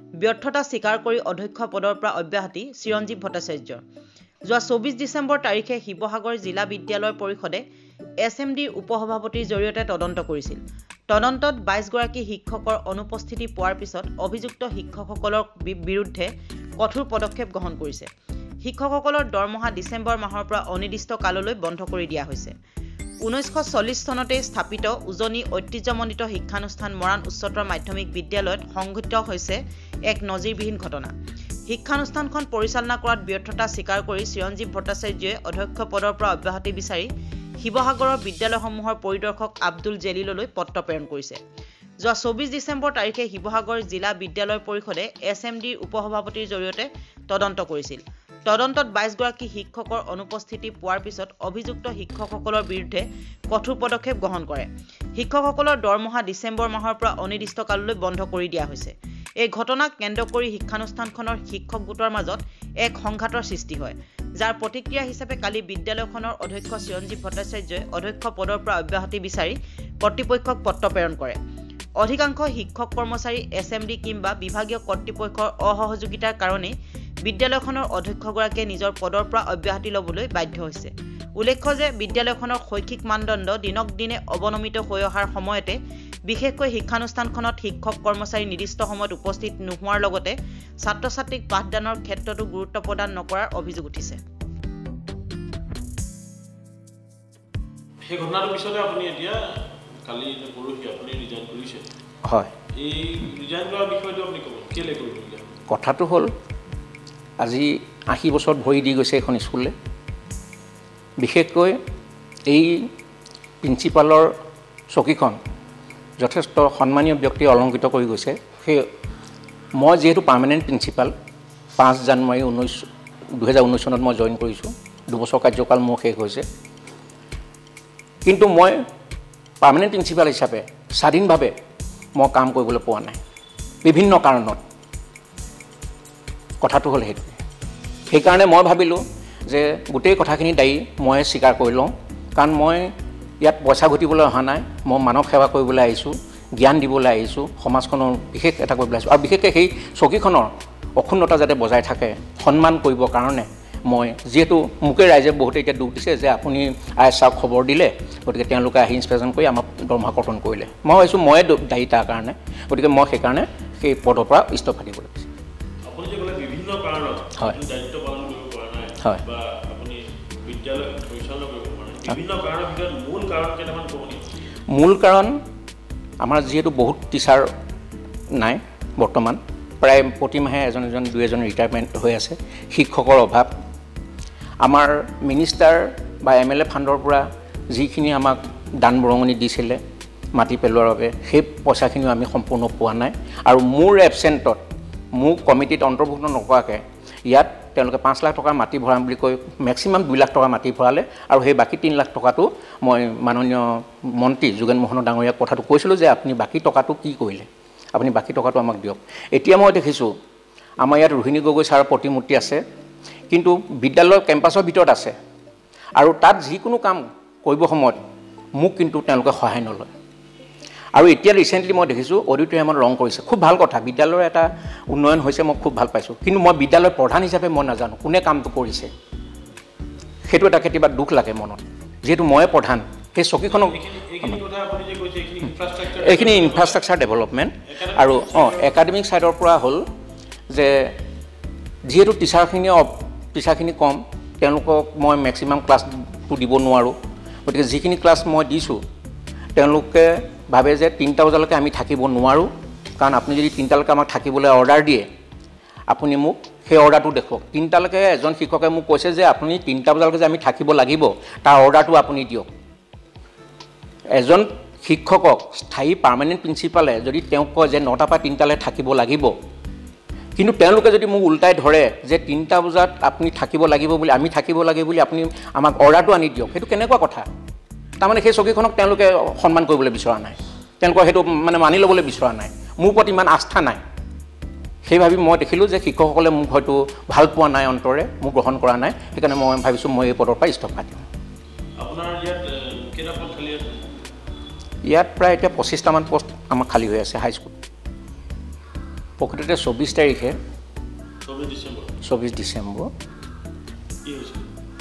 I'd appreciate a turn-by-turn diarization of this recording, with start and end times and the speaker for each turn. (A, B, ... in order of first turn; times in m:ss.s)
0:00.2-0:03.8 A
0:04.5-0:07.6 A
0:08.2-0:18.1 A
0:18.6-0:22.5 A
0:23.2-0:29.6 A
0:30.1-0:31.1 A
0:31.7-0:37.1 A
0:37.6-0:41.4 A
0:42.0-1:11.4 A
1:12.0-1:16.7 A
1:17.2-1:34.2 A
1:38.1-1:39.4 B
1:40.0-1:41.8 B
1:42.2-1:42.5 C
1:42.8-1:45.5 B
1:45.7-1:46.3 C
1:47.4-1:49.7 C
1:51.2-1:51.8 C
1:52.5-1:52.9 C
1:53.6-1:54.3 C
1:54.9-1:55.4 C
1:56.2-1:58.9 C
1:59.8-2:01.1 C
2:01.8-2:06.4 C
2:08.2-2:08.8 C
2:09.6-2:11.5 C
2:12.2-2:13.2 C
2:13.8-2:14.6 C
2:16.6-2:17.4 C
2:18.1-2:45.3 C
2:45.9-2:54.3 B
2:54.7-2:55.4 C
2:56.2-2:57.5 C
2:58.3-3:03.5 C
3:04.6-3:09.8 C
3:10.4-3:14.6 C
3:15.1-3:30.1 C
3:30.8-3:32.6 C
3:33.3-3:35.1 C
3:36.0-3:38.0 C
3:38.6-3:39.9 C
3:40.9-3:48.9 C
3:50.2-3:54.4 C
3:53.9-3:56.7 B
3:55.9-3:59.8 C
3:57.8-3:58.6 B
4:00.5-4:00.9 C
4:01.8-4:08.8 C
4:09.5-4:15.1 C
4:15.9-4:22.5 C
4:24.1-4:29.3 C
4:30.4-4:37.2 C
4:38.0-4:43.8 C
4:44.8-4:51.0 C
4:51.8-4:53.6 B
4:54.8-4:57.5 C
4:59.2-5:00.3 C
5:01.2-5:01.9 B
5:02.0-5:02.9 C
5:04.0-5:04.4 B